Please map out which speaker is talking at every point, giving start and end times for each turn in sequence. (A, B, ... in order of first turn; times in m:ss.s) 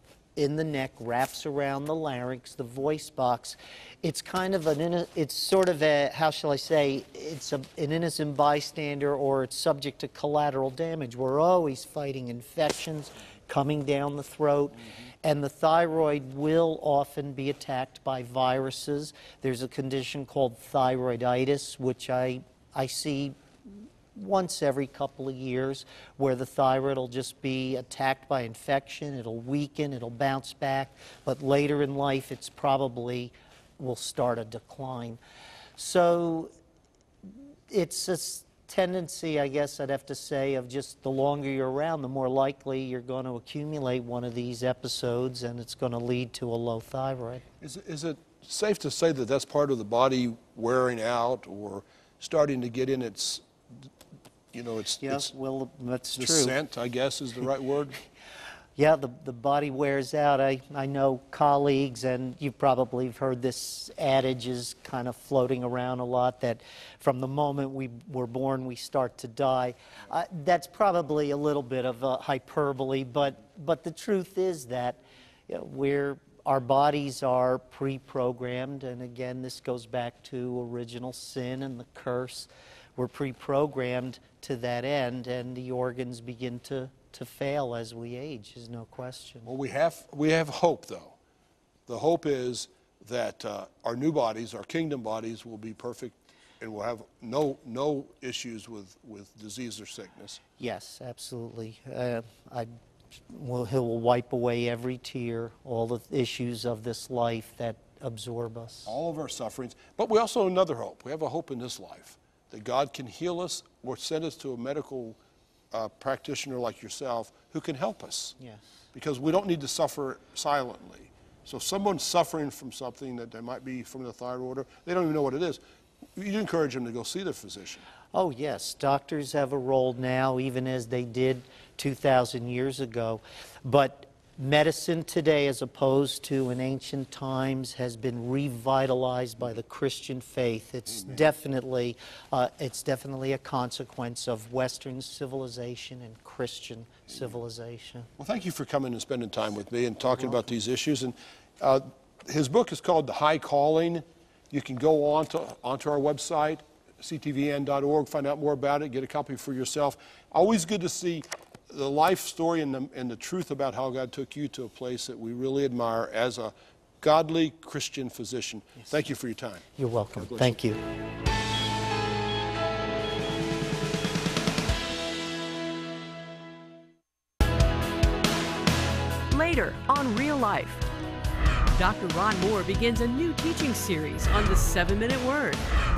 0:00.4-0:23.4 A
0:24.2-0:35.2 A
0:35.8-0:36.5 A
0:37.3-0:47.4 A
0:47.6-0:53.4 B
0:54.5-0:55.3 B
0:55.0-0:56.6 A
0:56.2-0:58.0 B
0:58.8-1:29.5 A
1:29.5-1:31.2 B
1:31.9-1:40.4 B
1:40.6-1:42.7 A
1:43.3-1:48.9 A
1:48.9-1:55.2 B
1:55.7-1:58.3 B
1:58.9-2:05.6 B
2:06.2-2:07.8 B
2:08.1-2:28.1 A
2:28.2-2:50.6 B
2:49.8-2:50.8 A
2:59.3-3:00.8 C
3:01.8-3:05.6 C